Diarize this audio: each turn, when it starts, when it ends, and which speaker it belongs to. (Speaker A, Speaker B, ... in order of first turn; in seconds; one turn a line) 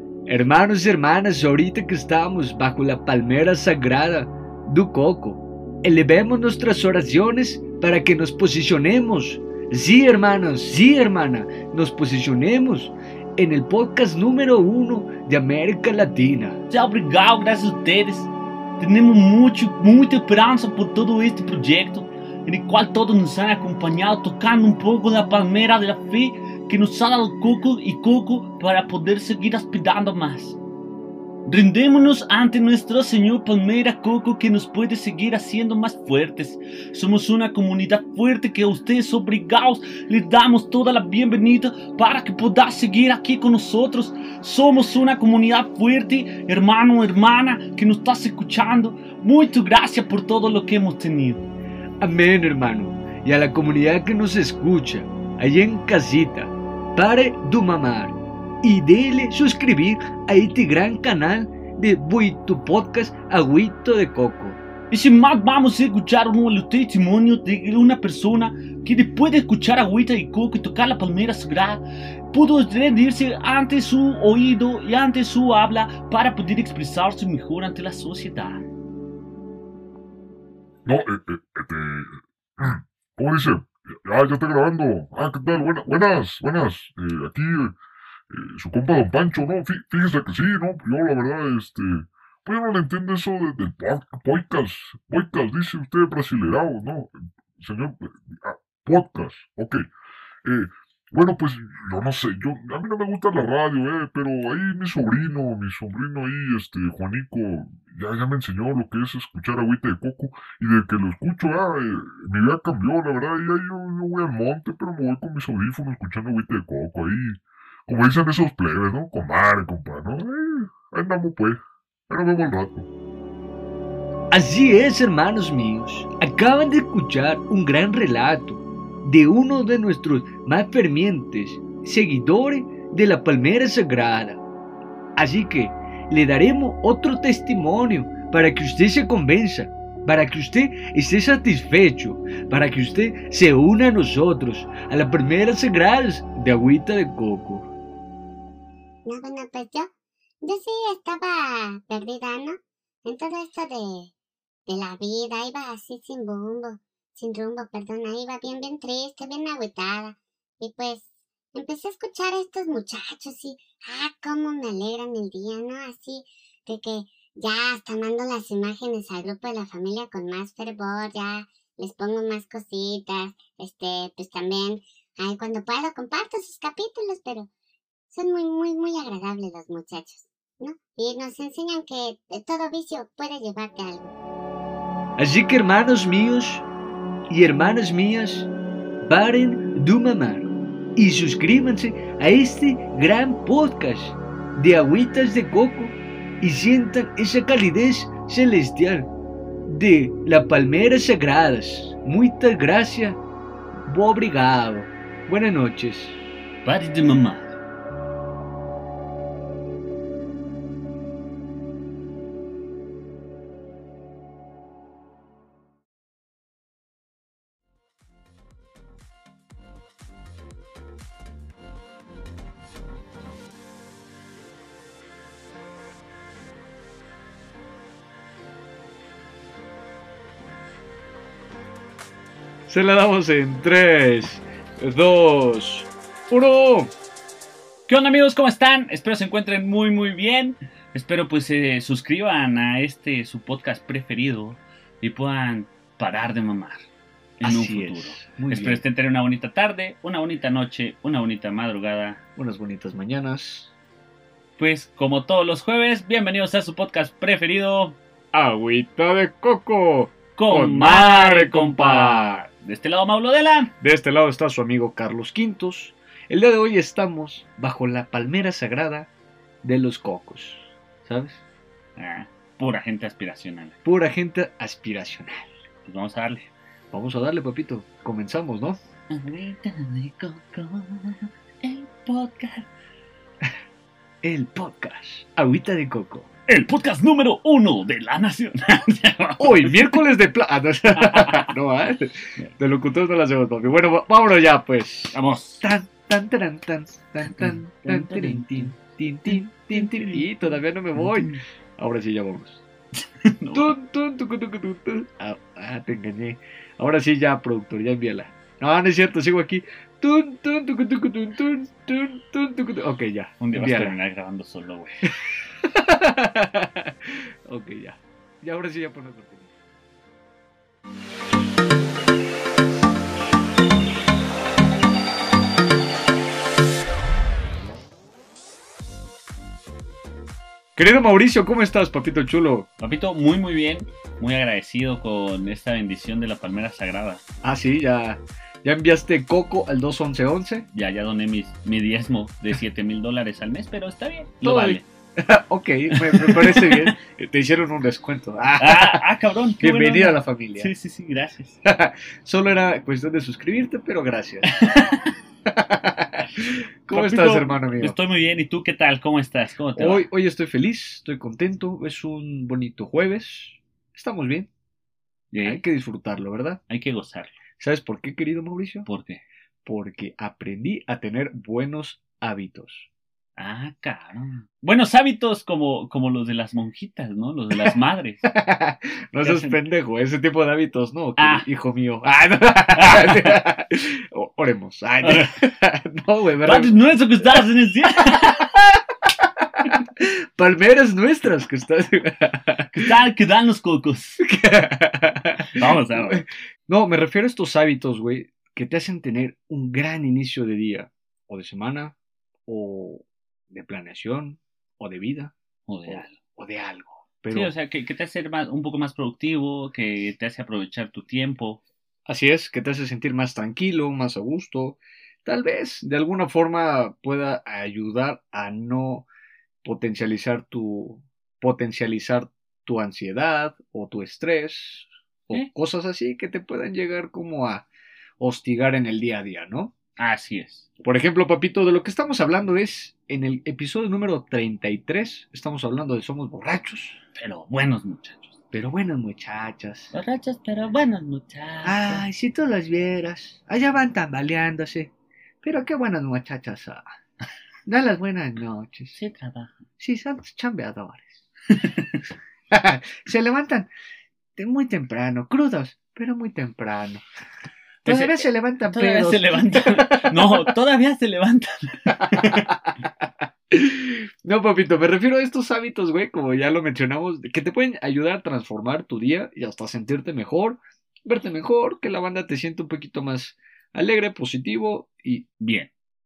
Speaker A: 0.3-16.6
Speaker B: 16.7-30.6
Speaker B: 31.5-51.5
Speaker A: 52.0-64.6
Speaker B: 64.9-78.6
Speaker C: 80.9-87.8
Speaker C: 88.3-99.9
Speaker C: 100.5-122.9
Speaker A: 124.3-134.4
Speaker A: 135.2-147.7
Speaker D: 149.1-149.9
Speaker D: 150.4-154.1
Speaker D: 154.7-177.5
Speaker D: 178.1-184.1
Speaker A: 185.2-186.7
Speaker A: 187.3-188.5
Speaker A: 189.0-199.1
Speaker A: 199.7-203.2
Speaker A: 203.8-206.2
Speaker B: 206.7-207.6
Speaker A: 232.7-236.9
Speaker B: 237.9-246.9
Speaker B: 247.4-252.2
Speaker A: 247.4-248.8
Speaker A: 252.4-253.7
Speaker B: 254.6-258.0
Speaker A: 258.3-262.4
Speaker B: 260.4-263.7
Speaker A: 263.8-269.1
Speaker A: 269.6-271.4
Speaker B: 272.0-273.8
Speaker A: 273.8-275.5
Speaker B: 275.9-276.5
Speaker A: 276.9-278.8
Speaker B: 279.1-282.7
Speaker A: 284.2-286.3
Speaker B: 286.5-290.0
Speaker A: 289.4-302.6
Speaker B: 291.0-291.5
Speaker B: 295.1-295.6
Speaker B: 297.3-298.7
Speaker B: 299.3-301.4
Speaker B: 303.2-303.8
Speaker A: 303.5-314.0
Speaker B: 313.4-315.0
Speaker A: 315.2-319.5
Speaker A: 330.8-332.7
Speaker B: 332.8-337.2
Speaker A: 337.4-340.7
Speaker B: 340.7-344.9
Speaker A: 344.4-349.0
Speaker B: 345.9-346.9
Speaker B: 348.6-351.6
Speaker A: 349.6-350.7
Speaker A: 351.6-354.5
Speaker B: 354.5-355.1
Speaker A: 355.5-358.0
Speaker B: 356.9-360.1
Speaker A: 359.8-364.5
Speaker B: 365.3-365.6
Speaker A: 365.4-366.6
Speaker B: 366.7-367.4
Speaker A: 367.6-368.9
Speaker B: 368.9-369.2
Speaker A: 369.6-372.9
Speaker B: 373.4-378.2
Speaker A: 378.2-387.4
Speaker B: 379.2-379.6
Speaker B: 381.2-381.5
Speaker B: 382.8-383.4
Speaker B: 385.0-385.4
Speaker B: 386.4-388.5
Speaker A: 388.0-392.9
Speaker B: 392.7-394.2
Speaker A: 394.2-402.0
Speaker B: 395.5-396.2
Speaker A: 402.5-405.3
Speaker B: 405.7-406.2
Speaker A: 405.9-407.5
Speaker B: 407.3-411.6
Speaker A: 412.1-419.1
Speaker A: 419.6-427.7
Speaker A: 428.2-429.7
Speaker B: 430.0-430.7
Speaker A: 430.8-437.0
Speaker B: 437.2-438.3
Speaker A: 438.5-439.9
Speaker B: 439.9-442.1
Speaker A: 441.6-444.9
Speaker A: 445.4-446.9
Speaker A: 447.7-449.0
Speaker B: 448.9-449.6
Speaker A: 449.8-451.2
Speaker B: 451.5-452.0
Speaker A: 452.5-453.7
Speaker A: 454.4-457.0
Speaker A: 457.8-460.5
Speaker B: 457.9-462.5
Speaker A: 461.9-475.3
Speaker B: 475.4-475.7